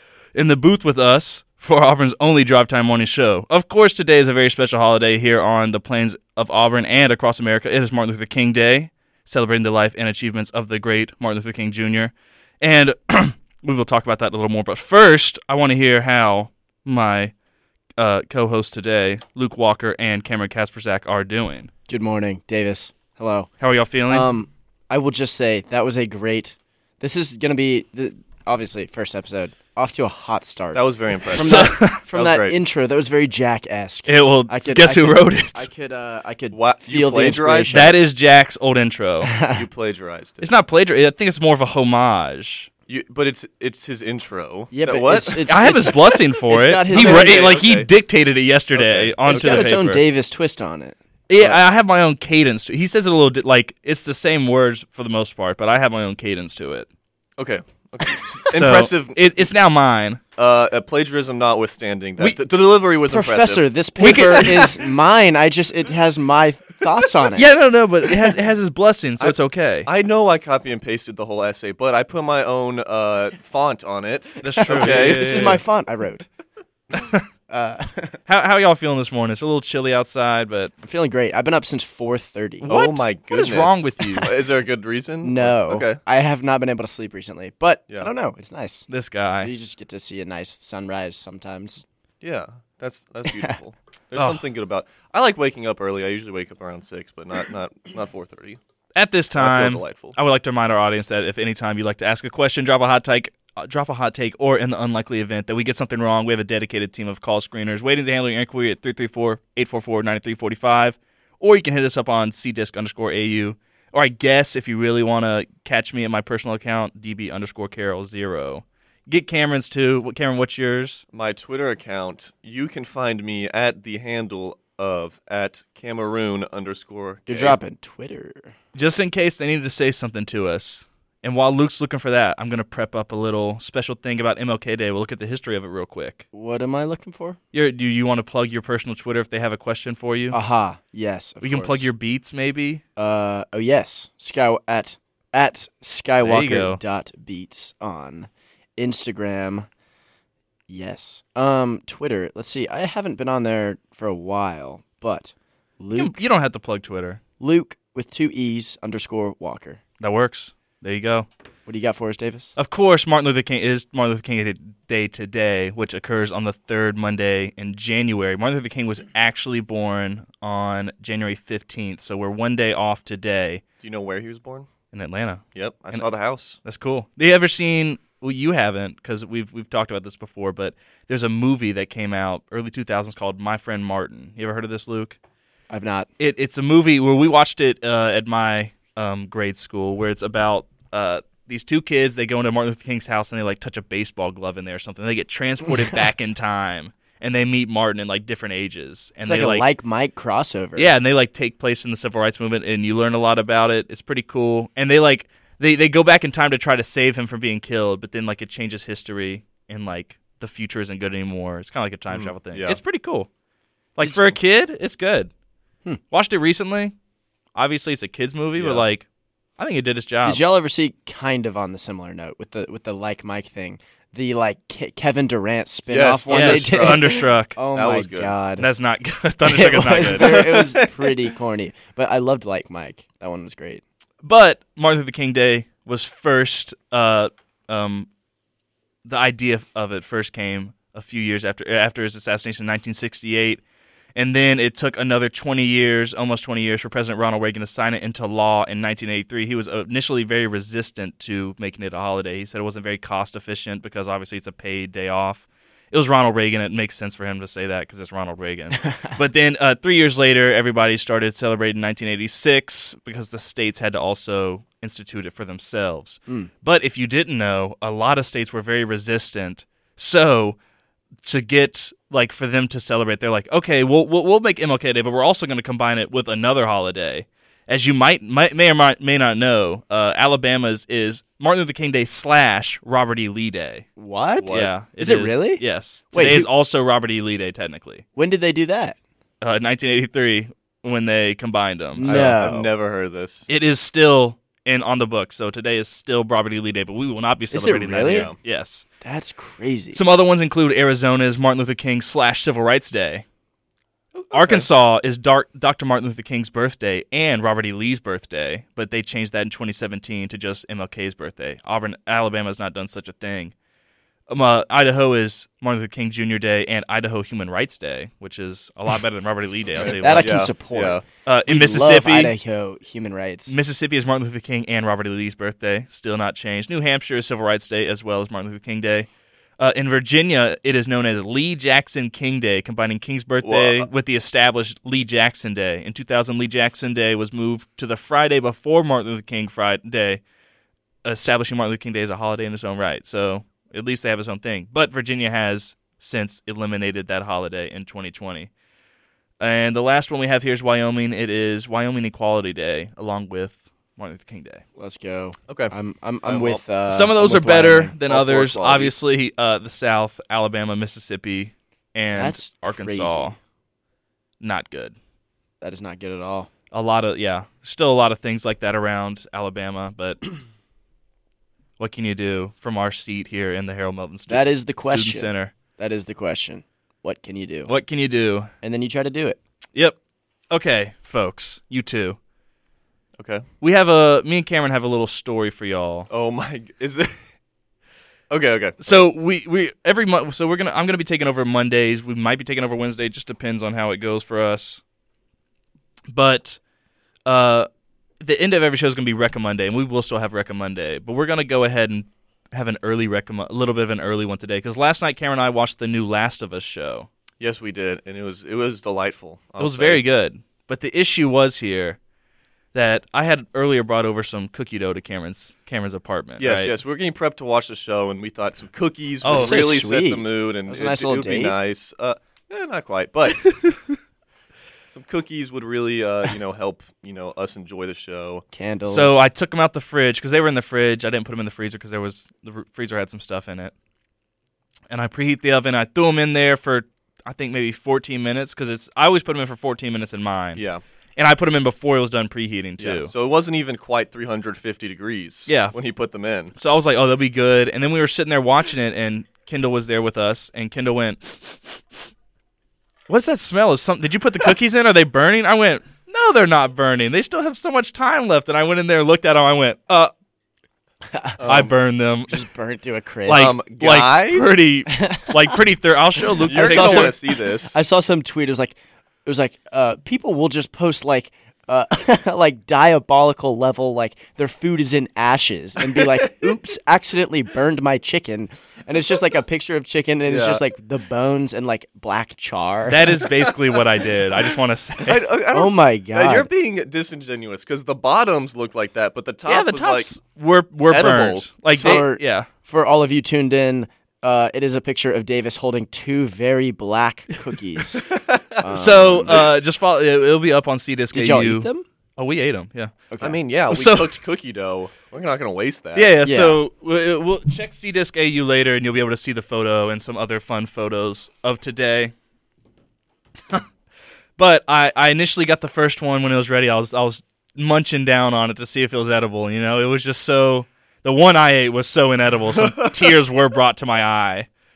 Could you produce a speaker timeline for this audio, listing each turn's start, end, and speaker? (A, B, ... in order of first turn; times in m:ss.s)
0:00.4-0:17.3 A
0:18.0-0:21.7 A
0:21.9-0:23.5 B
0:23.6-0:24.3 A
0:24.1-0:38.0 B
0:30.7-0:32.6 C
0:31.4-0:32.0 A
0:34.1-0:35.7 A
0:36.5-0:37.8 C
0:37.7-0:39.3 A
0:39.2-0:39.6 B
0:39.5-0:40.5 C
0:40.4-0:42.7 A
0:42.9-0:45.8 C
0:44.7-0:47.6 B
0:45.5-0:50.0 A
0:46.9-0:47.9 C
0:48.7-0:49.7 C
0:49.3-0:51.6 B
0:51.3-0:56.9 A
0:57.4-0:59.3 C
0:58.5-1:00.2 A
1:00.4-1:03.6 C
1:03.1-1:07.5 B
1:04.0-1:04.8 A
1:07.3-1:09.9 A
1:09.2-1:15.6 C
1:14.4-1:15.6 A
1:14.6-1:16.3 B
1:16.9-1:17.2 A
1:17.5-1:18.2 B
1:18.3-1:20.7 A
1:20.8-1:22.7 B
1:22.6-1:26.0 C
1:22.7-1:24.3 A
1:25.2-1:28.9 B
1:28.9-1:29.5 A
1:29.4-1:31.8 B
1:32.2-1:38.6 C
1:33.3-1:33.6 B
1:34.2-1:34.4 A
1:39.0-2:01.0 A
1:39.4-1:40.2 C
2:01.1-2:07.6 C
2:07.3-2:08.5 B
2:08.8-2:16.2 A
2:16.3-2:17.4 B
2:17.5-2:20.4 A
2:20.3-2:21.9 B
2:21.4-2:22.8 A
2:23.0-2:29.7 B
2:26.2-2:26.8 A
2:30.7-2:36.2 B
2:36.0-2:37.2 A
2:37.4-2:39.8 B
2:40.0-2:41.3 A
2:41.7-2:42.5 B
2:42.6-2:53.6 A
2:53.8-2:54.7 C
2:54.9-2:56.0 A
2:55.6-2:56.6 C
2:56.6-3:05.2 A
3:05.7-3:06.1 B
3:06.2-3:19.7 A
3:19.2-3:20.9 B
3:20.8-3:33.3 A
3:32.1-3:32.8 C
3:34.0-3:35.3 A
3:34.0-3:34.3 B
3:36.1-3:36.9 A
3:37.6-3:39.1 A
3:38.6-3:38.8 C
3:39.6-3:40.4 A
3:40.2-3:48.7 B
3:45.9-3:48.3 C
3:46.3-3:47.6 A
3:48.6-3:50.5 A
3:49.4-3:53.8 B
3:50.1-3:51.3 C
3:54.2-3:58.1 A
3:59.0-4:03.6 A
4:04.2-4:30.6 A
4:31.2-4:43.9 A
4:44.0-4:46.5 B
4:44.4-4:44.7 C
4:44.5-4:48.0 A
4:48.2-4:49.0 B
4:49.4-4:52.4 A
4:52.0-4:52.7 B
4:52.0-4:53.5 C
4:53.5-4:58.8 A
4:57.5-4:58.3 B
4:58.0-4:58.4 C
4:59.0-5:00.0 B
4:59.9-5:03.2 A
5:04.2-5:04.7 C
5:04.3-5:13.5 A
5:14.3-5:20.4 A
5:19.8-5:23.6 B
5:20.2-5:21.0 C
5:21.3-5:22.4 A
5:23.5-5:29.1 A
5:29.6-5:40.2 A
5:33.4-5:33.9 C
5:41.0-5:48.5 A
5:49.4-5:54.6 A
5:54.8-5:58.0 B
5:55.5-5:56.6 C
5:56.9-6:03.4 A
5:58.1-5:59.0 C
6:02.1-6:03.4 B
6:04.4-6:05.0 A
6:05.6-6:06.5 B
6:06.7-6:10.2 A
6:11.8-6:15.5 A
6:14.3-6:17.7 B
6:17.7-6:18.5 A
6:18.6-6:19.4 B
6:20.5-6:22.2 A
6:23.2-6:23.4 C
6:23.6-6:26.1 A
6:26.1-6:27.2 C
6:28.3-6:29.1 C
6:28.8-6:34.8 A
6:36.1-6:36.6 A
6:37.3-6:37.7 A
6:38.2-6:47.1 A
6:47.4-6:50.0 C
6:49.6-6:52.0 A
6:52.7-6:56.7 A
6:56.4-7:03.5 C
6:59.2-6:59.6 A
6:59.3-7:01.6 B
7:03.5-7:03.9 A
7:04.9-7:08.4 C
7:08.5-7:09.2 B
7:08.9-7:13.7 A
7:14.9-7:20.6 A
7:20.6-7:20.8 C
7:21.2-7:23.1 A
7:22.8-7:26.6 C
7:25.5-7:25.8 A
7:26.6-7:31.8 A
7:33.1-7:40.1 A
7:41.1-7:41.6 B
7:41.4-7:41.7 C
7:41.4-7:42.4 A
7:42.3-7:43.5 B
7:43.2-7:47.2 A
7:43.3-7:44.6 C
7:44.9-7:45.5 B
7:46.4-8:03.2 B
7:46.5-7:47.8 C
8:00.3-8:00.6 C
8:02.9-8:05.3 A
8:05.0-8:10.1 C
8:05.5-8:06.5 B
8:09.5-8:12.5 A
8:10.9-8:12.0 C
8:11.7-8:18.0 B
8:18.1-8:18.6 C
8:18.6-8:19.5 B
8:18.7-8:22.9 A
8:21.1-8:21.8 B
8:23.1-8:23.4 B
8:23.2-8:26.1 C
8:23.7-8:24.2 A
8:26.0-8:32.1 A
8:26.2-8:26.6 B
8:34.4-8:44.5 A